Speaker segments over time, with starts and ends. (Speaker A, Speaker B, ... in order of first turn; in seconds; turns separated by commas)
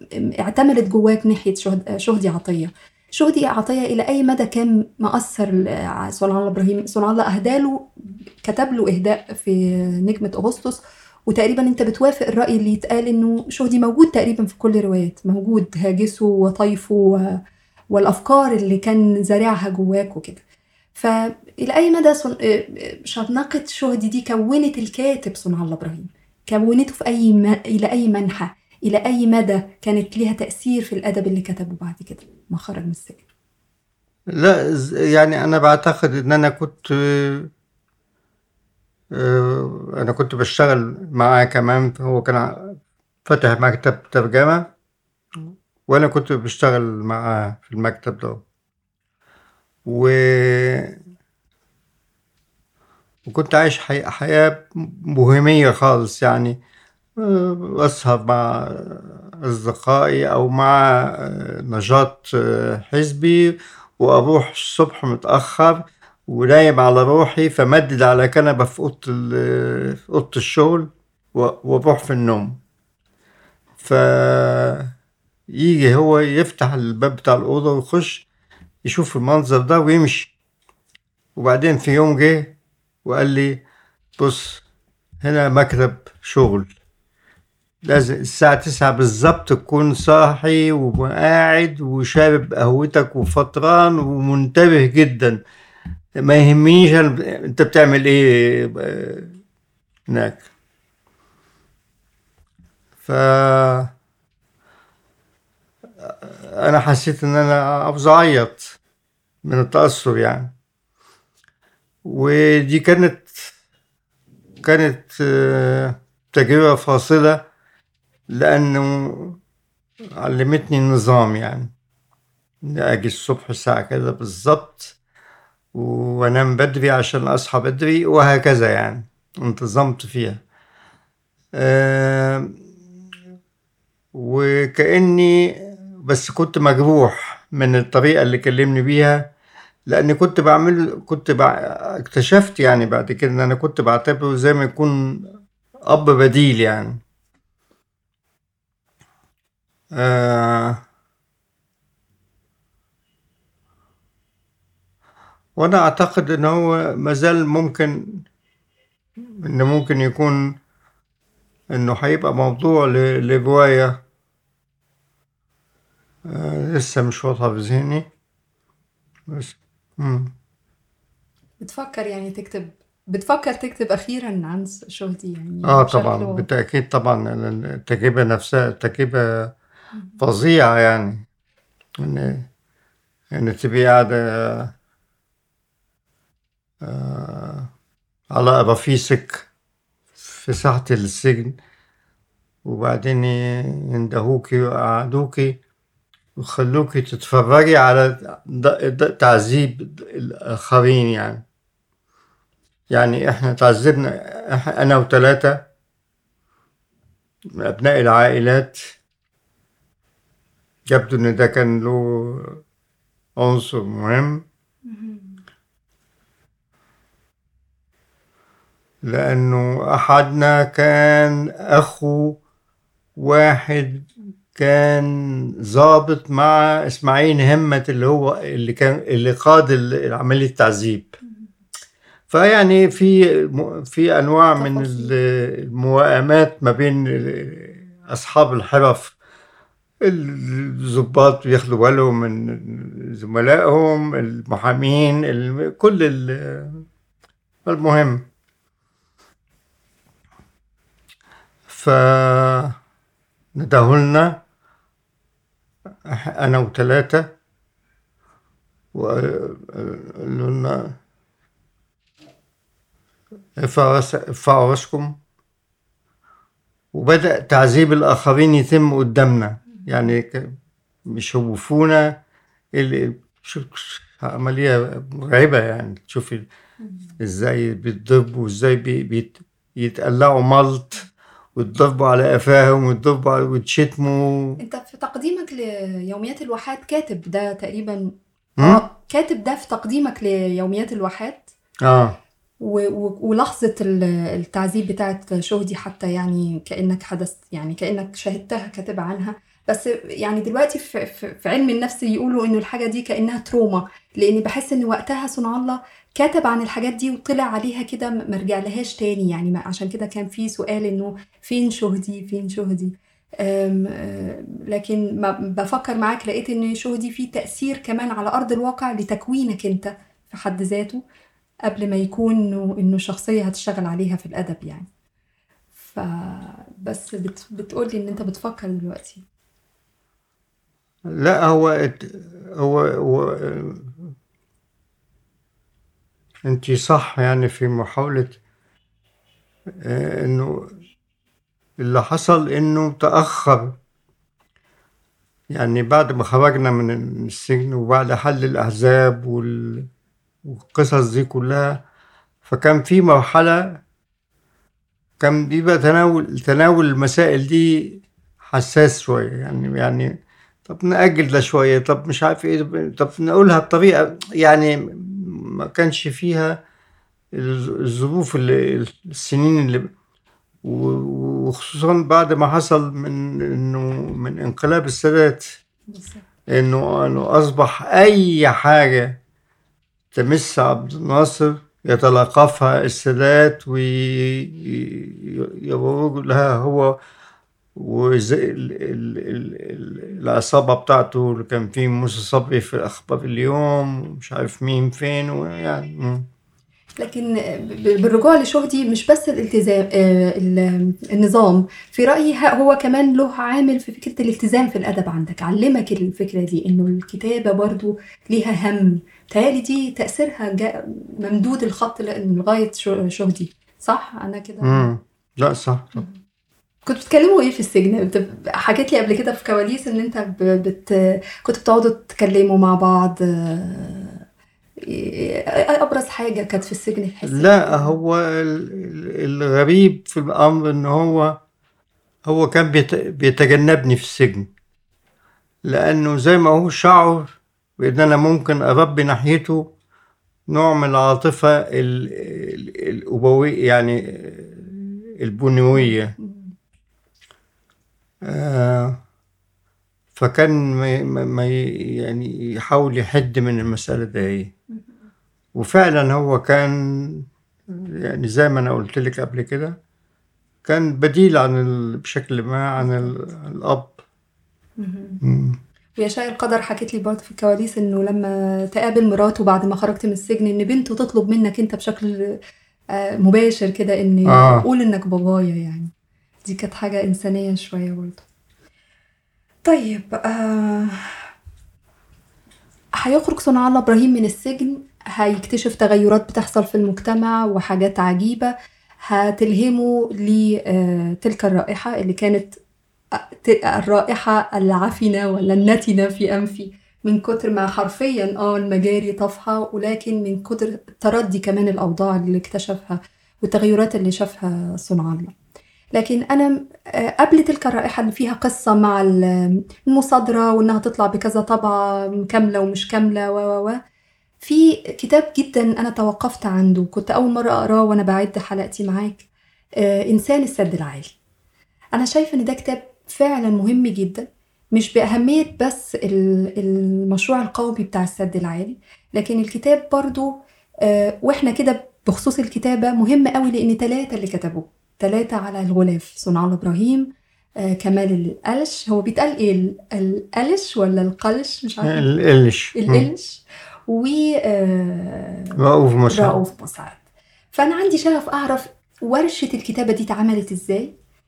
Speaker A: 0.4-7.9, Speaker A: 8.4-17.4, Speaker A: 17.9-20.4, Speaker A: 20.9-33.2, Speaker B: 34.3-37.5, Speaker B: 39.1-44.7, Speaker B: 45.9-48.4, Speaker B: 49.9-51.0, Speaker B: 53.3-56.6, Speaker B: 57.2-72.6, Speaker B: 73.8-74.9, Speaker B: 75.5-78.3, Speaker B: 78.8-80.3, Speaker B: 81.4-83.6, Speaker B: 84.2-84.6, Speaker B: 85.2-86.7, Speaker B: 87.8-95.4, Speaker B: 96.2-99.4, Speaker B: 100.1-100.5, Speaker B: 103.0-103.9, Speaker B: 106.0-108.8, Speaker B: 109.4-110.5, Speaker B: 112.0-113.5, Speaker B: 114.6-117.5, Speaker B: 118.3-119.4, Speaker B: 120.2-121.7, Speaker B: 122.6-125.0, Speaker B: 125.7-130.4, Speaker B: 131.6-132.6, Speaker B: 134.1-139.3, Speaker B: 139.9-145.3, Speaker B: 145.9-147.0, Speaker B: 150.0-150.8, Speaker B: 155.6-158.2, Speaker B: 159.4-160.6, Speaker B: 161.7-164.0, Speaker B: 166.3-168.1, Speaker B: 169.3-170.3, Speaker A: 171.6-176.5, Speaker B: 175.7-179.5, Speaker B: 180.2-181.2, Speaker B: 182.0-182.5, Speaker B: 183.3-184.7, Speaker B: 186.8-187.7, Speaker B: 188.3-189.5, Speaker B: 190.2-191.6, Speaker B: 192.7-195.6, Speaker B: 196.4-201.4, Speaker B: 202.9-205.6, Speaker B: 207.6-208.9, Speaker B: 210.9-212.6, Speaker B: 213.4-214.4, Speaker A: 214.9-215.3, Speaker B: 219.1-222.4, Speaker B: 223.2-231.1, Speaker B: 232.3-239.2, Speaker A: 234.6-235.2, Speaker B: 240.0-246.8, Speaker B: 247.7-248.3, Speaker B: 251.7-252.8, Speaker B: 253.6-254.4, Speaker B: 256.1-257.3, Speaker B: 258.9-261.0, Speaker B: 263.6-265.2, Speaker B: 266.9-270.5, Speaker B: 271.1-272.2, Speaker B: 272.7-276.5, Speaker B: 277.2-281.1, Speaker B: 281.6-284.6, Speaker A: 284.6-291.5, Speaker B: 291.8-292.2, Speaker A: 292.6-321.0, Speaker A: 321.7-324.9, Speaker A: 325.8-329.2, Speaker B: 331.1-334.1, Speaker B: 336.5-338.4, Speaker B: 339.8-340.7, Speaker B: 341.8-343.8, Speaker B: 345.5-349.9, Speaker B: 350.5-351.8, Speaker B: 352.5-353.8, Speaker B: 355.2-360.1, Speaker B: 360.7-366.6, Speaker B: 367.3-369.9, Speaker B: 370.6-375.6, Speaker A: 375.9-376.2, Speaker B: 376.5-379.2, Speaker B: 380.1-387.0, Speaker B: 387.8-396.3, Speaker A: 397.0-414.9, Speaker B: 414.6-416.0, Speaker A: 416.9-424.2, Speaker A: 424.8-427.9, Speaker B: 427.2-431.4, Speaker B: 432.3-434.5, Speaker B: 435.7-439.7, Speaker B: 440.5-446.1, Speaker A: 445.8-446.5, Speaker B: 448.3-449.0, Speaker B: 450.1-454.5, Speaker B: 455.6-459.8, Speaker B: 460.6-464.0, Speaker A: 462.8-463.2, Speaker A: 464.8-465.2, Speaker B: 465.2-465.6, Speaker A: 466.0-472.2, Speaker A: 472.9-475.9, Speaker B: 474.3-474.6, Speaker A: 476.4-478.2, Speaker A: 479.7-481.2, Speaker A: 483.0-488.5, Speaker A: 489.0-492.6, Speaker A: 493.2-505.3, Speaker A: 505.9-513.8, Speaker A: 514.4-519.2, Speaker A: 519.8-521.1, Speaker A: 522.0-537.1, Speaker A: 537.6-542.1, Speaker B: 541.9-543.1, Speaker A: 542.8-545.6, Speaker B: 545.6-546.4, Speaker A: 546.1-547.0, Speaker A: 547.5-550.9